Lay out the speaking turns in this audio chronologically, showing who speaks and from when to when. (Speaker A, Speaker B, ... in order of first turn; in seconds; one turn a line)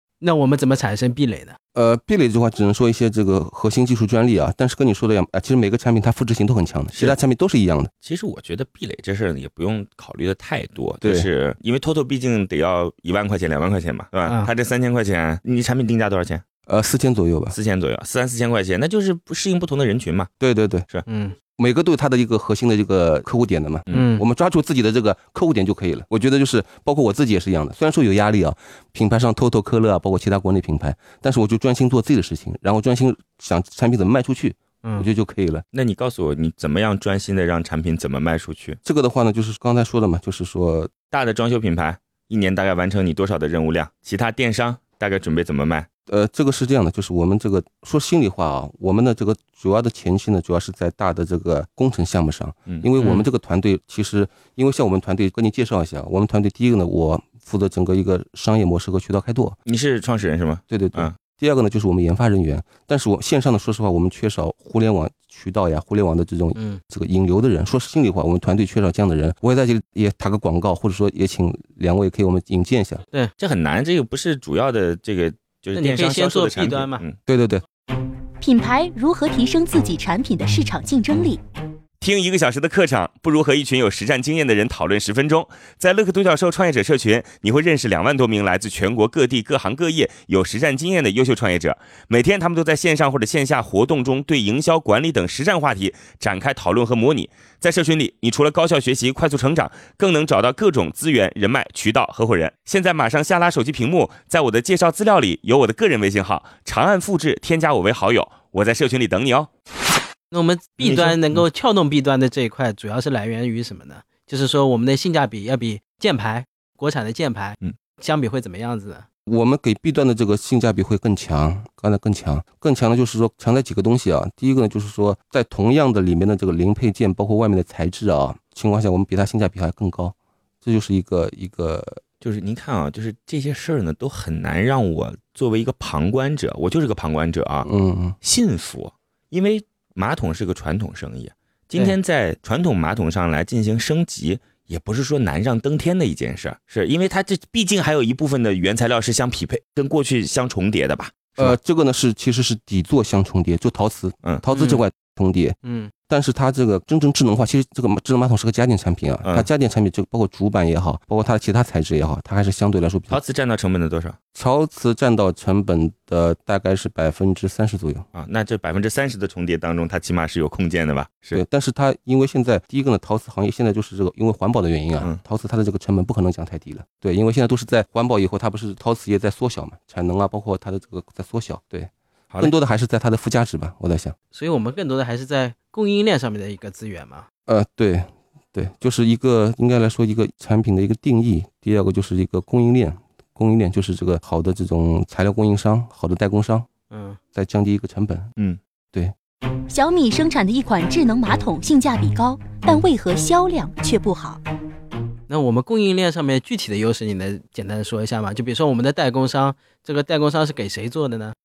Speaker A: 0.2-1.6
Speaker B: 1.8-7.9
Speaker C: 6.9-7.2
Speaker C: 8.0-16.4
Speaker B: 11.0-11.3
Speaker A: 14.2-14.5
Speaker B: 16.7-17.6
Speaker C: 17.5-20.3
Speaker B: 20.4-20.9
Speaker A: 21.1-21.4
Speaker B: 21.5-35.6
Speaker A: 23.9-24.2
Speaker A: 34.8-35.1
Speaker C: 35.7-38.8
Speaker B: 38.8-40.9
Speaker C: 41.1-45.9
Speaker B: 46.1-59.6
Speaker A: 53.0-53.3
Speaker C: 59.7-61.1
Speaker B: 60.7-73.0
Speaker A: 66.5-66.8
Speaker C: 73.4-77.2
Speaker A: 75.7-77.0
Speaker B: 77.3-77.6
Speaker D: 78.4-81.4
Speaker C: 82.0-109.5
Speaker A: 110.3-119.0
Speaker C: 110.8-111.4
Speaker B: 119.3-132.0
Speaker C: 132.2-137.7
Speaker B: 137.7-138.2
Speaker C: 138.2-151.6
Speaker B: 151.4-163.2
Speaker A: 154.5-154.8
Speaker A: 155.6-155.9
Speaker C: 159.2-159.5
Speaker C: 163.1-164.2
Speaker B: 164.3-168.1
Speaker C: 168.1-171.4
Speaker B: 171.3-184.2
Speaker A: 184.3-187.3
Speaker B: 187.5-196.7
Speaker A: 196.9-197.2
Speaker B: 197.3-198.3
Speaker D: 199.7-204.4
Speaker A: 205.3-211.3